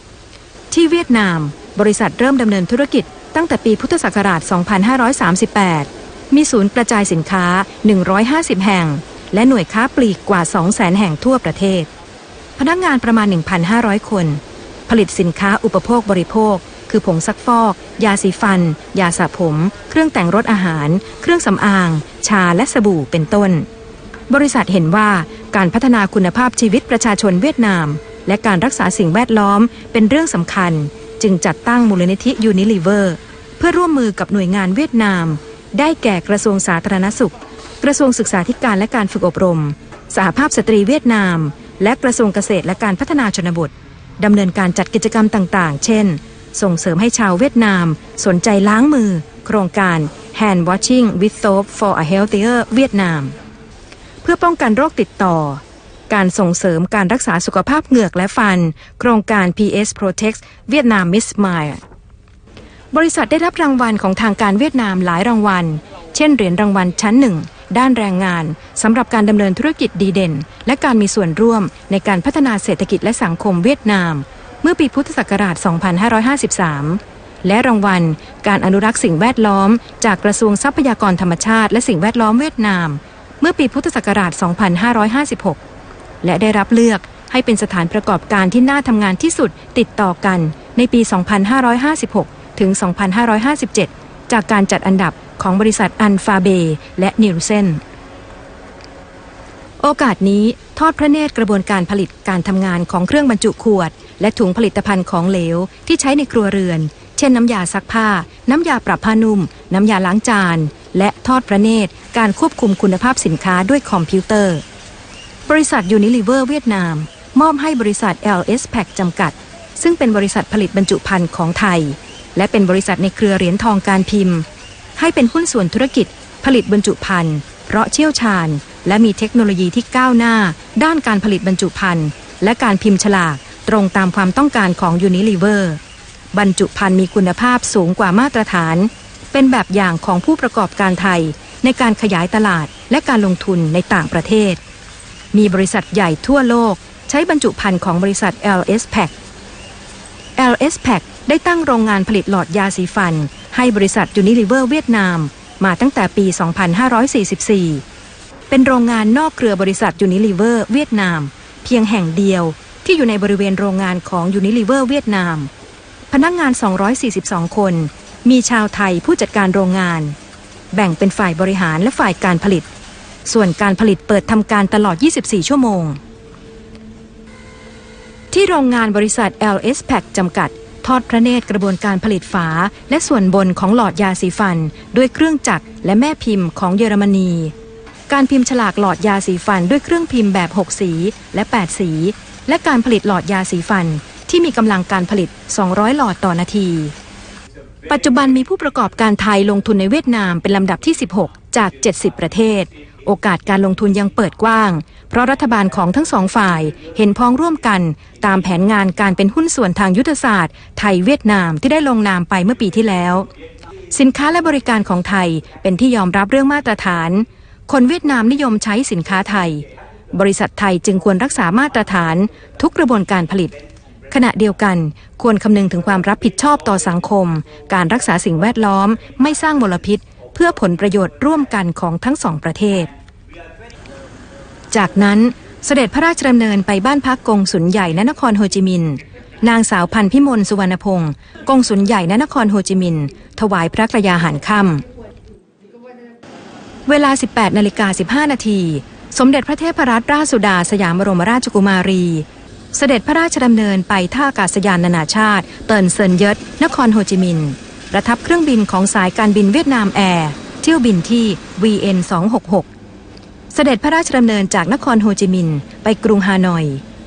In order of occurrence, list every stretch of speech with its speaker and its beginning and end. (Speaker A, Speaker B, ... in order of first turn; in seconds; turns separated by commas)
Speaker A: 0.7-11.9, Speaker A: 12.6-23.7, Speaker A: 24.3-53.4, Speaker A: 54.2-61.8, Speaker A: 62.9-85.6, Speaker A: 86.2-97.8, Speaker A: 99.8-114.6, Speaker A: 115.5-124.5, Speaker A: 125.0-135.8, Speaker A: 136.3-144.6, Speaker A: 145.3-149.1, Speaker A: 150.4-157.8, Speaker A: 158.5-165.5, Speaker A: 166.1-170.2, Speaker A: 170.7-172.7, Speaker A: 173.3-176.0, Speaker A: 178.3-187.5, Speaker A: 188.1-196.9, Speaker A: 197.9-213.3, Speaker A: 213.9-223.5, Speaker A: 224.1-232.9, Speaker A: 234.7-244.8, Speaker A: 246.9-262.7, Speaker A: 263.5-266.8